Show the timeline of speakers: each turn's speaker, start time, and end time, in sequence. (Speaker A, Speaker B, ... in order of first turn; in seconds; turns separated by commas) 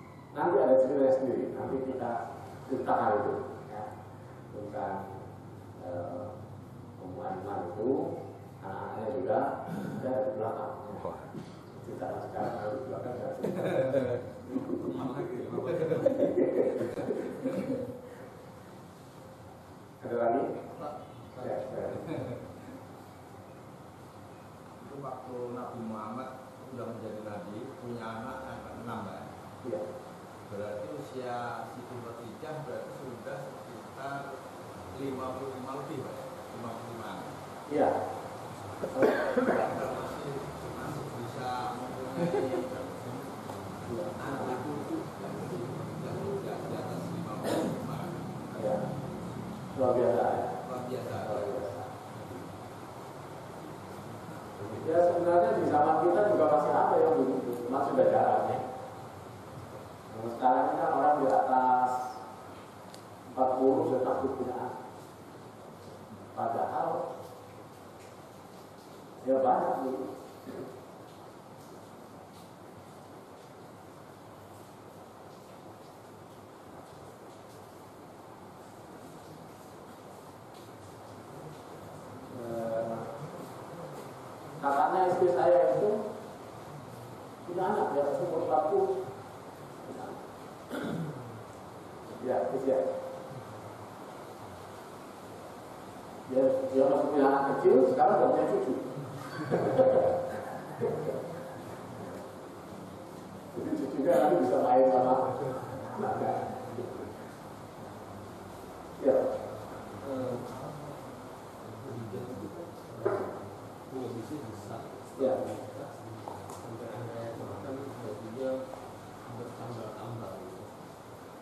Speaker A: 0.3-3.9, Speaker A: 4.5-5.2, Speaker A: 5.8-6.3, Speaker A: 7.0-11.1, Speaker A: 11.7-14.2, Speaker B: 14.8-16.3, Speaker C: 14.8-16.4, Speaker A: 16.5-17.6, Speaker A: 20.0-20.6, Speaker B: 20.7-22.3, Speaker A: 21.4-22.1, Speaker B: 24.8-29.3, Speaker B: 30.5-34.3, Speaker B: 34.9-37.3, Speaker A: 37.7-38.0, Speaker A: 38.9-39.3, Speaker B: 39.3-43.5, Speaker A: 43.9-44.6, Speaker B: 44.1-48.3, Speaker A: 48.5-48.9, Speaker A: 49.7-50.6, Speaker B: 50.6-52.3, Speaker A: 51.2-51.9, Speaker A: 54.6-58.6, Speaker A: 60.1-62.2, Speaker A: 63.3-64.8, Speaker A: 66.3-67.1, Speaker A: 69.2-70.1, Speaker A: 82.3-83.1, Speaker A: 84.6-86.0, Speaker A: 87.5-88.9, Speaker A: 89.8-90.2, Speaker A: 92.2-92.9, Speaker A: 96.3-101.1, Speaker A: 103.5-106.9, Speaker A: 109.0-109.3, Speaker C: 109.9-110.7, Speaker C: 111.7-118.5, Speaker C: 119.2-120.7